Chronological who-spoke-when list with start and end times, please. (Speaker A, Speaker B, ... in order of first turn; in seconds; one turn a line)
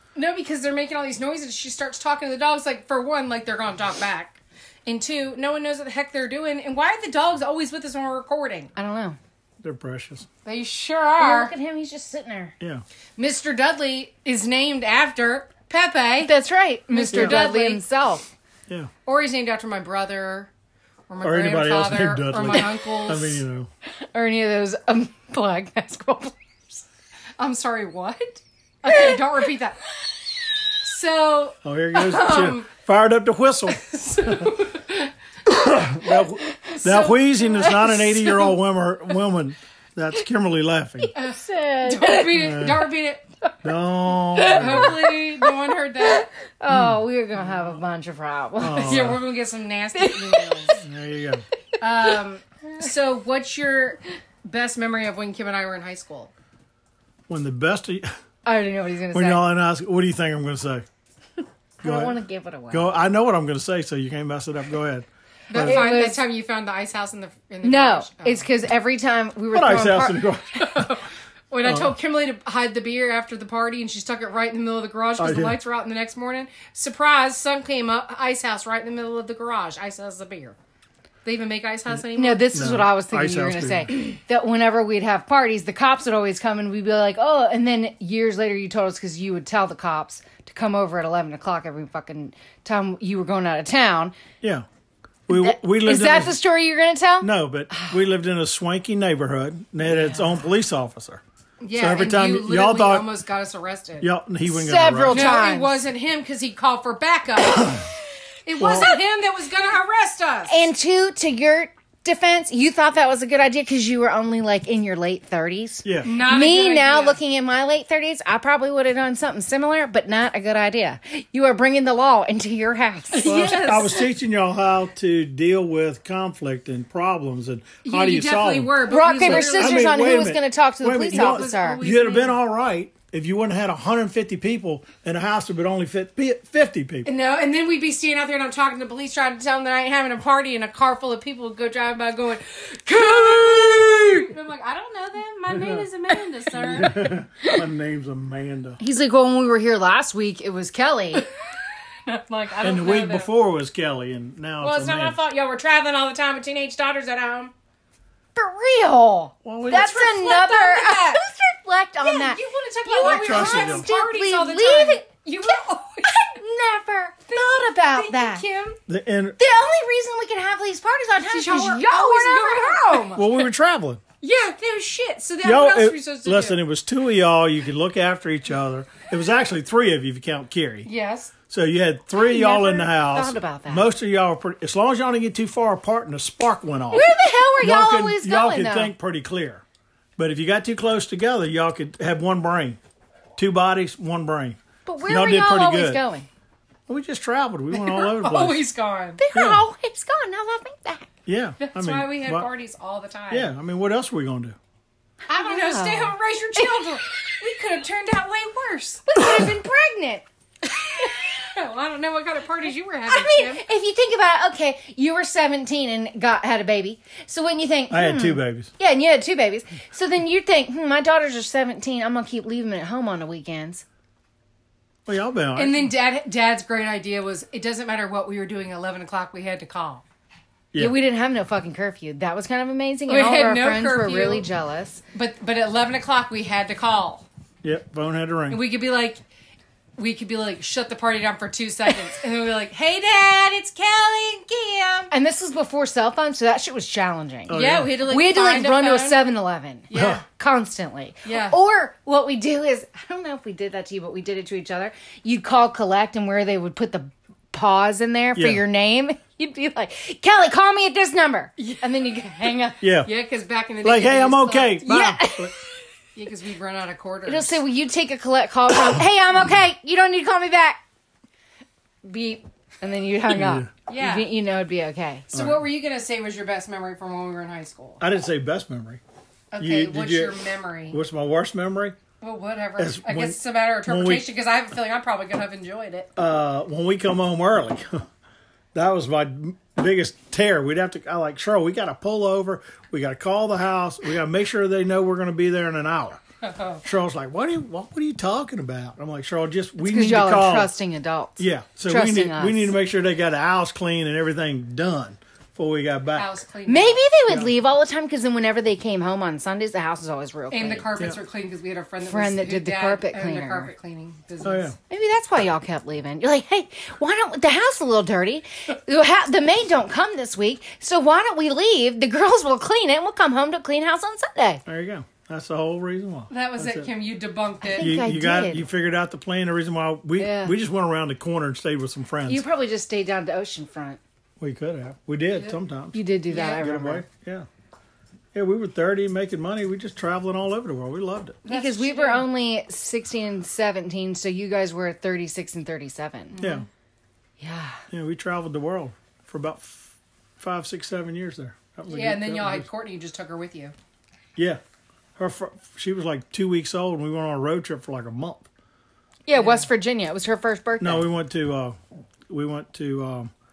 Speaker A: 0.1-8.7
Speaker B: 8.8-9.2
Speaker C: 9.6-10.2
Speaker A: 10.4-11.5
Speaker B: 11.2-12.5
Speaker A: 13.2-16.3
Speaker B: 16.2-18.3
Speaker A: 16.9-17.8
Speaker C: 17.1-17.4
Speaker A: 19.0-20.5
Speaker A: 21.1-23.4
Speaker C: 21.2-23.7
Speaker B: 24.1-26.8
Speaker A: 27.4-29.8
Speaker A: 30.8-32.6
Speaker C: 31.6-34.5
Speaker A: 33.8-35.1
Speaker C: 35.5-41.1
Speaker A: 36.7-38.4
Speaker B: 41.1-42.4
Speaker A: 41.1-43.2
Speaker C: 42.3-42.9
Speaker C: 43.6-45.0
Speaker B: 44.4-49.0
Speaker A: 44.5-46.3
Speaker C: 46.7-47.0
Speaker C: 48.6-49.2
Speaker A: 48.8-50.8
Speaker B: 50.0-50.8
Speaker C: 50.8-51.4
Speaker A: 51.8-56.3
Speaker C: 57.3-58.1
Speaker B: 58.4-59.4
Speaker C: 59.1-60.9
Speaker C: 61.8-62.2
Speaker B: 61.8-62.9
Speaker C: 62.7-65.9
Speaker A: 65.5-68.5
Speaker B: 65.5-66.2
Speaker B: 67.6-70.2
Speaker C: 69.5-70.6
Speaker A: 70.5-80.5
Speaker C: 71.6-71.9
Speaker C: 75.2-75.6
Speaker A: 81.2-82.5
Speaker B: 82.1-94.2
Speaker C: 82.5-83.9
Speaker C: 94.4-94.7
Speaker C: 95.3-96.4
Speaker B: 95.3-97.9
Speaker C: 97.2-101.2
Speaker B: 99.9-100.4
Speaker A: 101.6-104.1
Speaker C: 101.7-103.1
Speaker C: 104.0-105.4
Speaker B: 104.5-105.8
Speaker A: 105.1-107.8
Speaker A: 108.5-110.7
Speaker C: 108.6-108.9
Speaker B: 110.5-123.8
Speaker A: 116.0-117.2
Speaker A: 123.1-124.0
Speaker C: 123.2-137.1
Speaker A: 127.8-130.1
Speaker B: 128.8-131.8
Speaker A: 131.1-132.4
Speaker A: 137.0-147.1
Speaker C: 145.5-145.9
Speaker C: 146.5-148.8
Speaker B: 148.8-151.2
Speaker A: 152.1-153.3
Speaker C: 152.6-155.2
Speaker A: 154.6-157.5
Speaker B: 158.3-165.5
Speaker C: 159.4-159.9
Speaker A: 159.7-161.2
Speaker A: 162.0-166.3
Speaker C: 163.0-163.9
Speaker B: 166.1-168.4
Speaker A: 167.3-168.8
Speaker C: 168.9-169.4
Speaker B: 169.4-173.2
Speaker A: 171.2-173.4
Speaker C: 173.1-174.0
Speaker A: 174.2-176.6
Speaker C: 175.4-180.9
Speaker A: 180.8-181.3
Speaker C: 181.5-187.1
Speaker B: 182.2-183.9
Speaker B: 186.9-188.9
Speaker C: 187.6-189.6
Speaker C: 190.2-192.8
Speaker C: 193.3-196.0
Speaker B: 194.8-196.3
Speaker C: 196.9-198.6
Speaker A: 197.7-199.2
Speaker B: 199.2-201.1
Speaker C: 199.3-199.6
Speaker C: 201.2-202.5
Speaker A: 201.6-203.5
Speaker C: 203.3-204.6
Speaker B: 205.3-207.0
Speaker A: 205.3-209.3
Speaker B: 209.1-210.2
Speaker A: 210.7-213.6
Speaker B: 213.1-223.8
Speaker C: 217.9-218.7
Speaker C: 225.1-225.9
Speaker A: 225.6-230.0
Speaker B: 230.8-235.0
Speaker A: 233.1-234.4
Speaker A: 235.1-237.2
Speaker C: 237.6-238.6
Speaker A: 238.5-239.2
Speaker A: 240.0-245.1
Speaker B: 245.1-262.8
Speaker C: 247.5-248.0
Speaker A: 247.5-249.2
Speaker A: 249.9-250.2
Speaker C: 249.9-250.2
Speaker A: 251.2-251.6
Speaker C: 258.3-258.6
Speaker A: 261.6-261.8
Speaker C: 262.8-263.1
Speaker A: 263.0-264.8
Speaker C: 263.8-265.5
Speaker B: 264.8-265.6
Speaker A: 266.1-267.6
Speaker B: 267.2-270.8
Speaker B: 272.0-275.3
Speaker C: 273.3-273.7
Speaker A: 273.9-274.3
Speaker A: 275.3-278.0
Speaker C: 275.3-275.6
Speaker C: 278.0-279.0
Speaker A: 279.5-281.0
Speaker C: 279.6-282.0
Speaker A: 282.2-286.1
Speaker C: 282.8-284.3
Speaker C: 286.1-288.0
Speaker C: 288.7-296.2
Speaker A: 296.4-296.8
Speaker C: 296.8-300.7
Speaker B: 299.8-302.7
Speaker C: 301.4-306.4
Speaker A: 306.1-307.0
Speaker B: 306.7-310.9
Speaker A: 310.5-314.7
Speaker B: 312.1-313.7
Speaker C: 314.4-314.7
Speaker B: 314.9-324.6
Speaker C: 324.6-326.9
Speaker A: 326.3-328.0
Speaker B: 327.6-328.6
Speaker C: 327.8-332.4
Speaker B: 330.2-330.5
Speaker B: 332.2-334.0
Speaker C: 334.4-336.0
Speaker B: 335.9-337.0
Speaker A: 336.3-336.6
Speaker C: 336.6-337.4
Speaker C: 338.3-341.4
Speaker A: 341.4-342.3
Speaker B: 341.4-346.4
Speaker A: 346.3-346.6
Speaker C: 346.4-346.6
Speaker B: 347.4-347.8
Speaker C: 347.9-352.7
Speaker A: 351.9-353.7
Speaker C: 355.1-358.5
Speaker B: 359.3-361.1
Speaker A: 359.3-359.6
Speaker C: 360.8-363.3